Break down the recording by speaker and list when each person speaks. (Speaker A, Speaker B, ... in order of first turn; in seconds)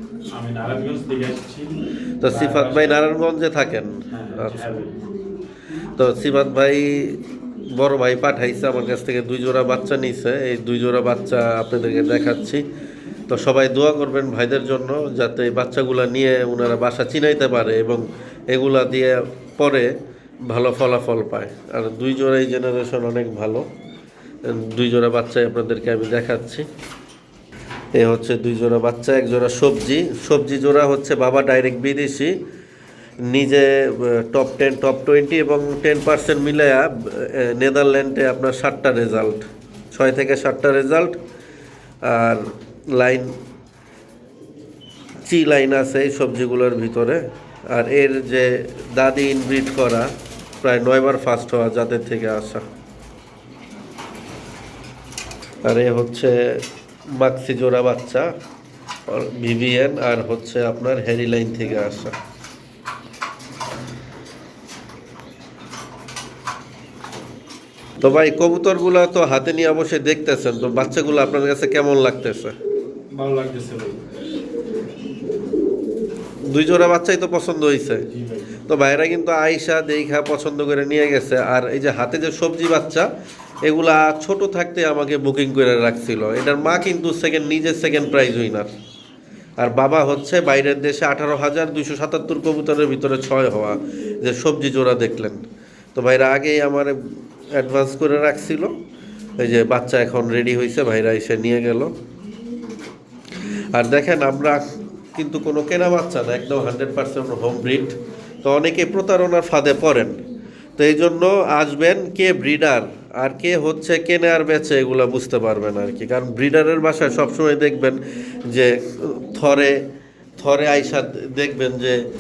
Speaker A: 0.3-3.0, 4.1-4.9, 73.1-74.0, 78.1-78.6
Speaker B: 2.2-4.8, 6.0-7.2, 7.8-12.6, 13.3-19.9, 20.5-23.6, 24.5-26.6, 28.0-32.3, 33.3-39.4, 39.9-41.2, 42.1-42.4, 43.0-43.3, 45.3-50.1, 50.6-52.6, 55.7-56.3, 57.2-58.3, 59.1-62.1, 68.0-72.5, 76.5-78.0, 78.7-83.1, 83.7-88.7, 89.6-95.4, 96.0-97.0, 97.5-98.7, 99.4-101.9, 103.7-104.6, 105.2-110.1, 110.8-119.8, 120.4-122.0